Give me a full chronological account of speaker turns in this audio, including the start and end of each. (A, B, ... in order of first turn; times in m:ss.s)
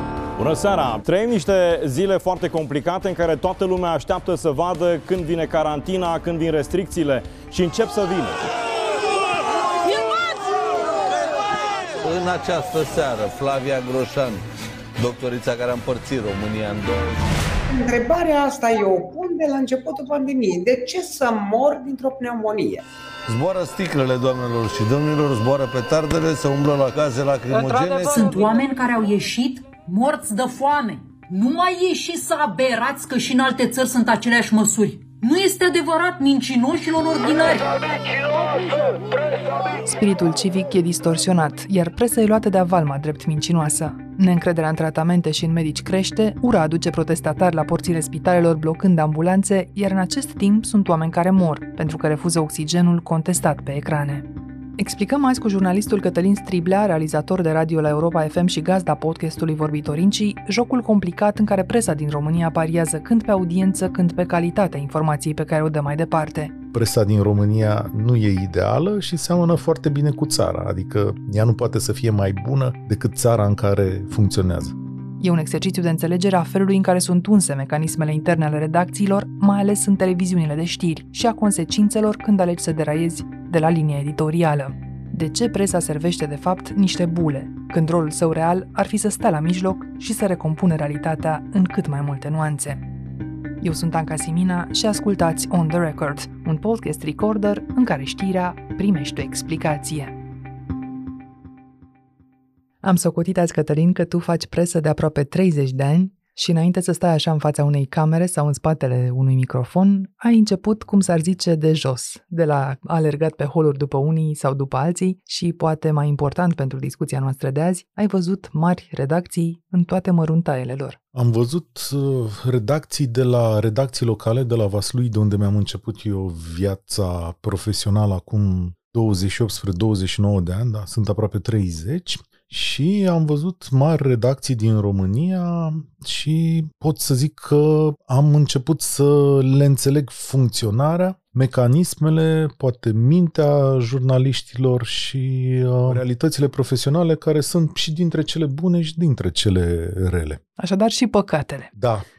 0:00.4-0:08.4 A
0:12.0-0:14.4 B
0:15.0-0:17.0 B
0:17.7-0:22.8 C
0:23.3-0:28.4 B
0:27.6-0:28.2 C
0:28.1-0:37.7 D
0:39.8-1:06.5 E
1:06.7-1:14.7 F
1:15.2-1:32.8 E
1:33.6-1:40.1 E
1:42.8-2:01.0 E
2:01.1-2:30.4 F
2:30.6-2:31.7 E
2:31.8-2:32.0 F